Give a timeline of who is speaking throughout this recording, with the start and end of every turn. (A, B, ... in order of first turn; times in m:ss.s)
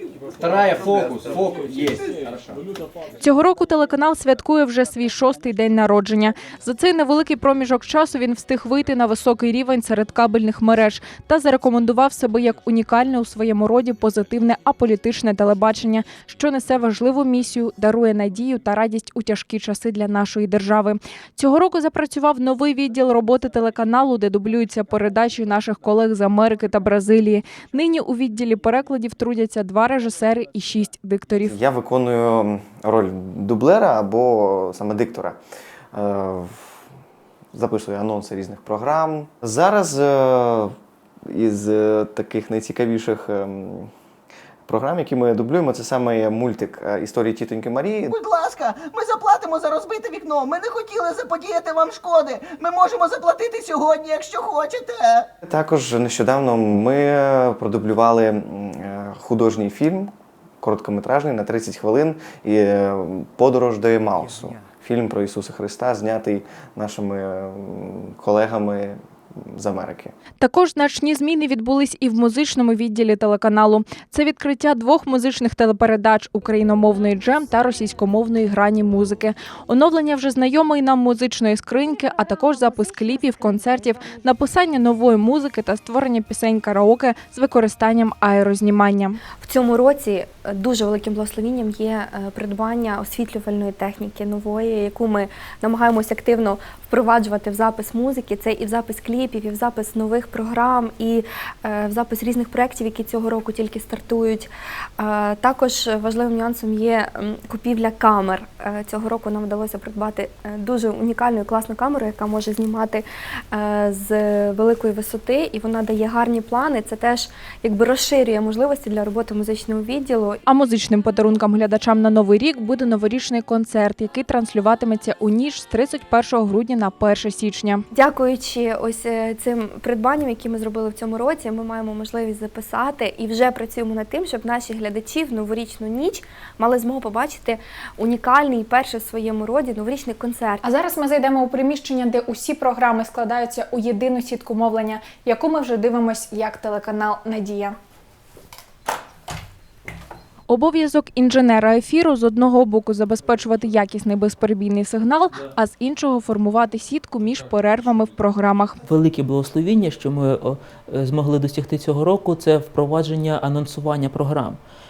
0:00.3-0:02.6 A
0:03.1-0:31.6 B
0:31.4-0:35.4 C
0:35.9-0:36.8 C
0:37.5-0:40.7 C
0:41.3-0:43.9 C
0:44.7-0:48.1 C
0:48.1-0:55.3 D
0:55.4-1:10.1 C
1:10.4-1:29.2 B
1:29.4-2:00.4 E
2:00.4-2:07.8 B
2:07.9-2:20.6 E
2:20.6-2:27.8 B
2:30.5-2:38.8 B
2:38.8-2:44.6 F